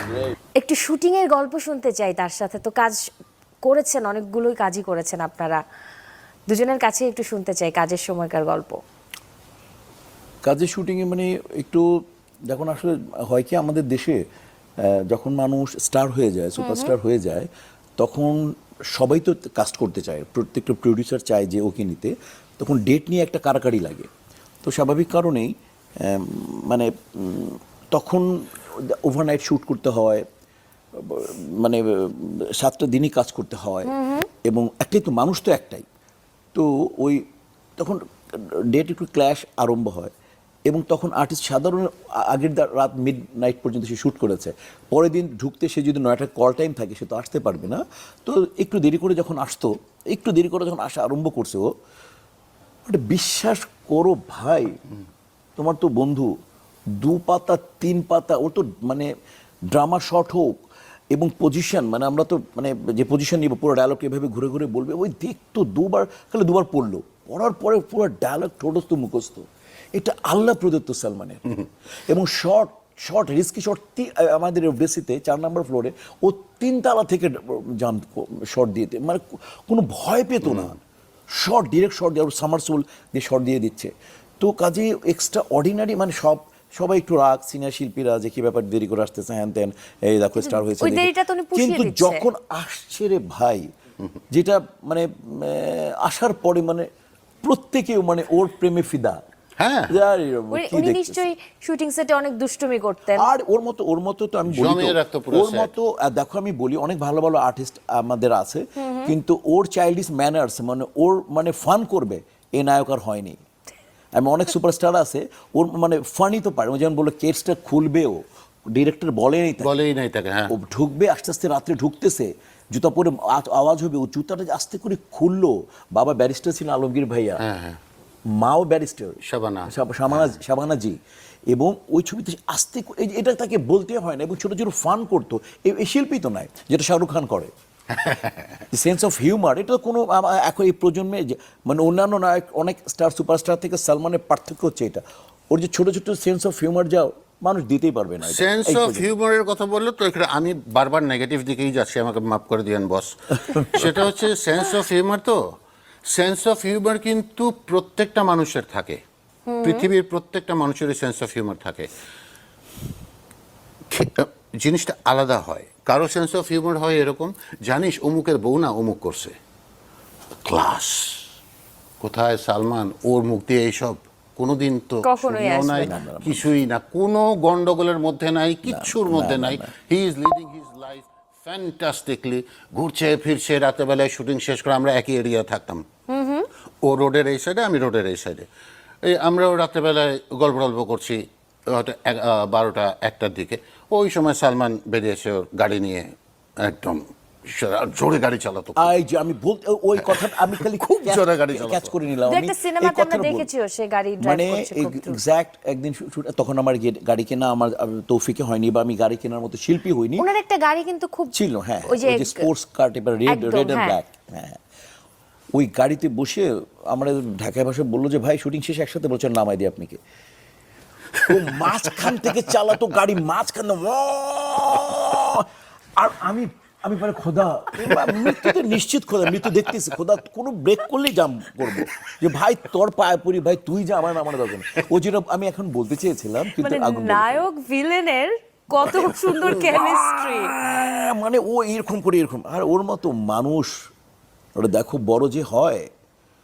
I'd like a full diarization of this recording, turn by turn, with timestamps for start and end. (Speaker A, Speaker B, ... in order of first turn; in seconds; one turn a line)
Speaker A: 0.6-3.0
Speaker A: 3.6-5.6
Speaker A: 6.5-8.8
Speaker B: 10.4-14.2
Speaker B: 14.8-18.4
Speaker A: 16.6-16.9
Speaker B: 18.9-24.1
Speaker B: 24.6-30.2
Speaker B: 30.9-35.9
Speaker A: 33.9-34.3
Speaker B: 36.5-37.2
Speaker B: 37.8-40.1
Speaker B: 40.7-51.7
Speaker B: 52.9-54.8
Speaker B: 55.6-56.3
Speaker B: 57.0-59.1
Speaker B: 59.7-60.5
Speaker B: 61.1-71.4
Speaker B: 72.1-80.8
Speaker C: 80.4-80.8
Speaker B: 81.3-93.7
Speaker A: 90.4-92.2
Speaker B: 94.3-96.9
Speaker B: 97.4-99.2
Speaker C: 99.6-99.9
Speaker B: 99.9-101.3
Speaker A: 100.5-103.3
Speaker B: 103.2-113.4
Speaker C: 104.5-105.7
Speaker A: 108.8-109.1
Speaker B: 114.2-119.7
Speaker C: 119.6-120.5
Speaker B: 120.5-127.4
Speaker C: 127.4-127.8
Speaker B: 128.3-137.5
Speaker C: 129.2-130.4
Speaker C: 137.9-138.6
Speaker B: 138.7-149.1
Speaker C: 148.2-159.0
Speaker A: 159.5-159.9
Speaker C: 159.6-161.9
Speaker C: 163.9-169.3
Speaker C: 170.4-171.3
Speaker C: 172.0-185.8
Speaker A: 175.0-176.0
Speaker B: 175.8-176.5
Speaker B: 178.7-179.7
Speaker A: 186.1-186.5
Speaker C: 186.8-188.5
Speaker C: 189.0-198.9
Speaker B: 198.8-203.5
Speaker C: 200.0-201.9
Speaker A: 202.3-205.2
Speaker B: 204.2-210.3
Speaker A: 210.2-211.3
Speaker B: 211.3-214.6
Speaker A: 211.9-212.5
Speaker A: 213.3-214.0
Speaker B: 215.5-220.0
Speaker B: 221.2-225.5
Speaker B: 226.0-237.5
Speaker C: 227.9-228.5
Speaker A: 236.4-240.6
Speaker B: 238.8-243.9
Speaker B: 244.6-245.9